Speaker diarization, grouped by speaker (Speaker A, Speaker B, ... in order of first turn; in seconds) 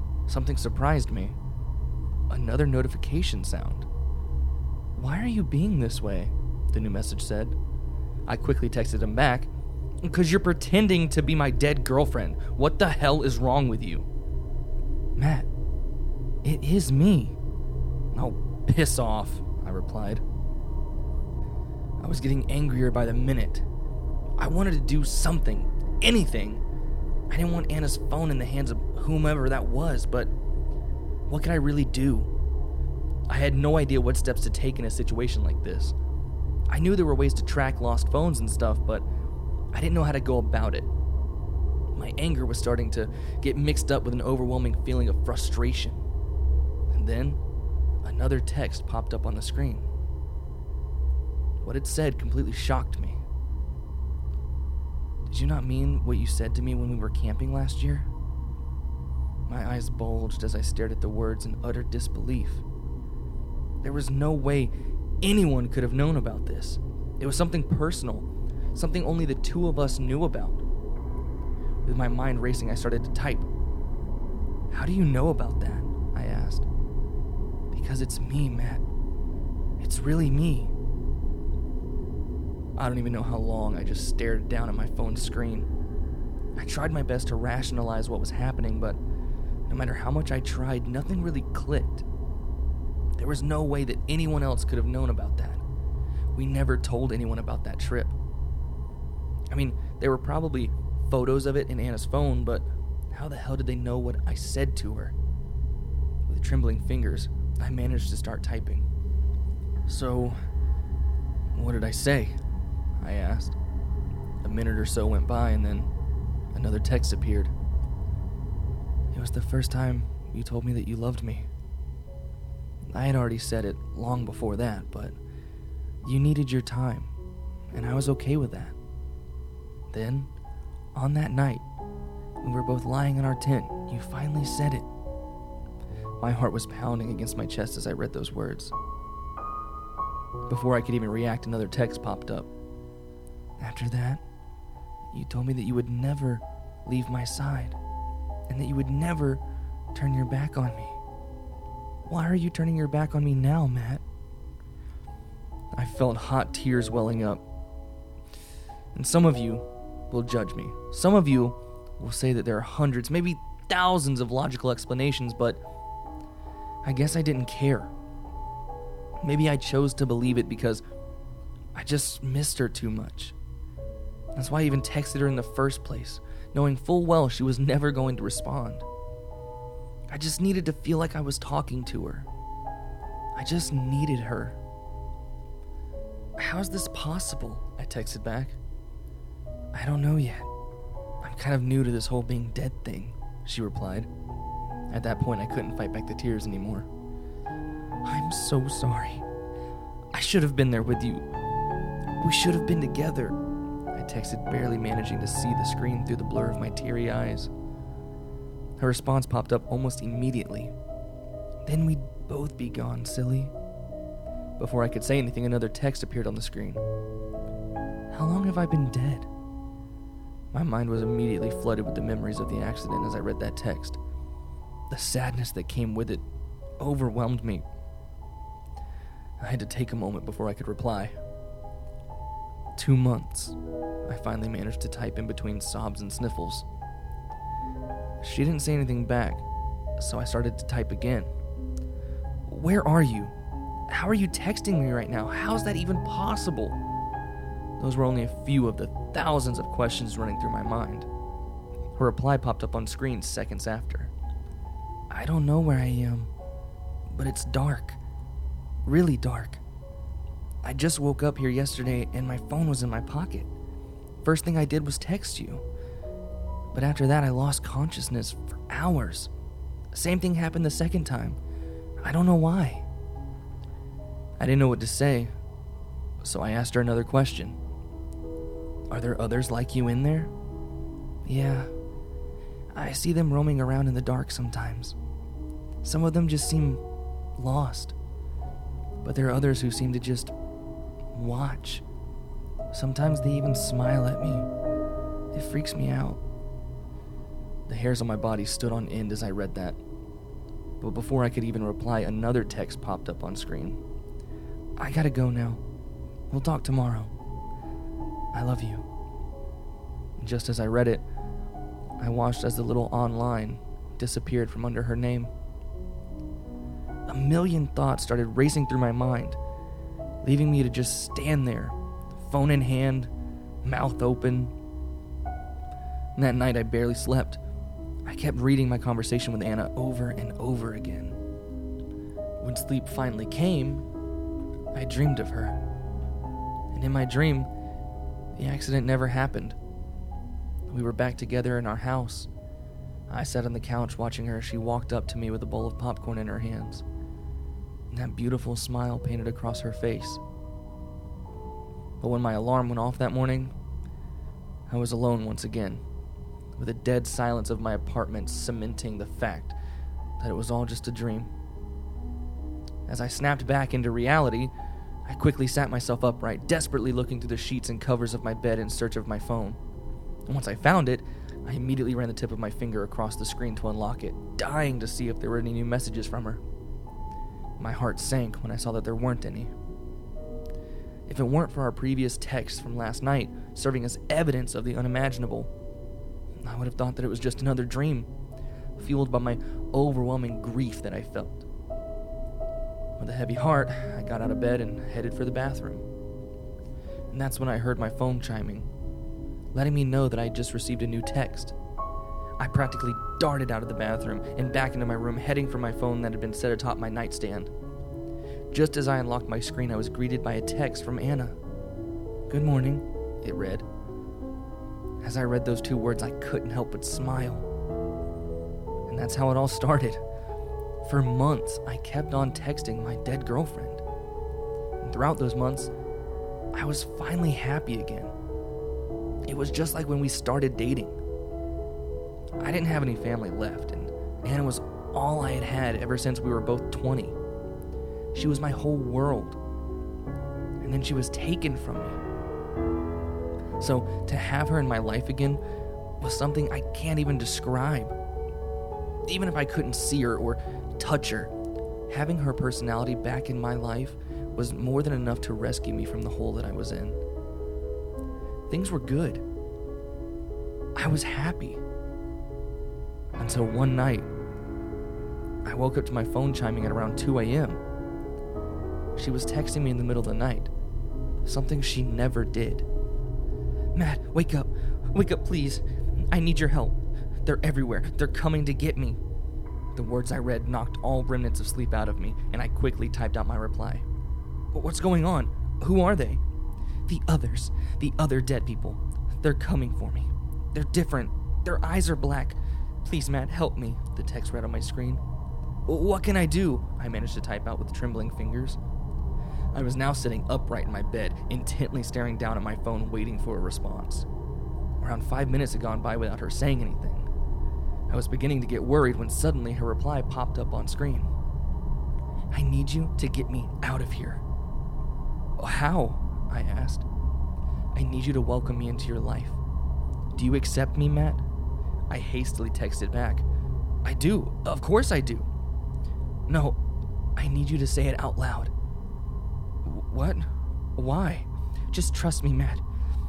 Speaker A: 0.3-1.3, 2.3-3.9, 5.0-7.5, 8.3-9.5, 10.0-14.1, 15.2-15.4, 16.4-17.3, 18.1-20.2, 22.0-23.6, 24.4-26.6, 27.3-30.3, 31.3-32.3, 33.3-35.9, 36.7-39.0, 39.7-40.9, 41.9-46.0, 46.9-47.4, 48.0-49.8, 51.6-53.2, 55.3-58.1, 59.5-62.6, 63.8-70.6, 71.8-73.5, 74.7-76.6, 77.7-78.8, 79.8-80.7, 82.8-85.7, 86.5-89.0, 89.7-92.0, 93.2-95.6, 96.3-98.1, 99.5-105.1, 106.3-108.8, 109.9-110.3, 111.5-112.3, 113.0-113.5, 114.4-115.9, 116.5-117.5, 119.1-121.5, 122.9-125.1, 126.0-127.1, 127.7-128.7, 129.9-130.3, 130.9-131.6, 132.4-134.8, 136.2-138.7, 140.5-142.5, 143.6-144.2, 145.1-147.8, 148.5-149.4, 149.9-151.0, 152.1-154.0, 155.7-157.4, 158.9-165.6, 166.8-167.9, 169.2-170.8, 171.7-173.3, 174.3-178.8, 180.1-182.3, 183.3-184.6, 186.4-188.6, 189.7-190.4, 191.2-194.1, 194.9-196.9, 198.0-199.2, 200.1-201.2, 202.2-203.4, 203.9-207.5, 208.8-210.7, 211.7-213.5, 214.6-216.8, 218.1-219.3, 220.5-224.0, 224.9-226.2, 226.8-227.6, 229.4-231.1, 232.8-233.5, 234.1-236.6, 238.2-239.4, 240.0-241.3, 242.5-243.3, 243.9-246.8, 247.8-251.1, 252.0-254.1, 255.1-256.3, 257.1-258.0, 258.9-259.6, 260.6-263.5, 264.2-265.6, 266.7-269.3, 269.9-271.4, 272.0-272.8, 274.4-275.3, 276.2-277.6, 278.9-280.3, 281.2-281.7, 282.7-284.9, 285.8-286.8, 287.4-287.9, 289.0-290.3, 291.1-291.8, 292.7-294.5, 295.3-296.2, 297.7-299.8, 300.8-303.8, 304.8-305.6, 306.3-307.1, 308.3-308.8, 310.2-311.0, 312.0-315.3, 317.1-319.4, 320.2-321.7, 322.3-323.1, 323.6-324.5, 326.2-327.4, 328.1-331.1, 332.4-333.8, 334.7-335.6, 336.7-337.5, 338.4-339.6, 340.7-342.3, 343.1-346.8, 347.9-350.2, 352.0-353.5, 354.7-355.8, 356.6-359.5, 360.2-361.3, 362.9-364.5, 365.1-369.6, 370.3-376.4, 377.6-379.5, 381.1-385.5, 386.4-388.1, 388.8-391.4, 393.0-395.8, 397.1-398.7, 399.5-401.5, 402.4-407.5, 408.5-411.4, 412.3-413.6, 415.0-417.4, 418.9-420.0, 420.8-423.8, 424.8-425.7, 426.5-428.1, 429.3-430.9, 432.4-437.1, 438.1-439.4, 440.6-442.0, 443.6-445.4, 446.0-447.9, 449.1-451.3, 451.9-457.0, 458.5-459.2, 460.8-461.6, 463.2-464.1, 465.4-467.6, 469.0-470.5, 471.2-472.6, 473.8-476.7, 477.2-479.0, 479.8-483.8, 484.5-486.2, 486.9-495.0, 495.7-498.6, 499.5-504.0, 504.8-507.1, 507.9-511.1, 512.3-514.2, 515.4-516.8, 517.7-519.4, 520.2-521.2, 521.9-523.2, 523.8-525.2, 526.3-526.6, 527.2-528.5, 529.6-530.2, 530.8-532.6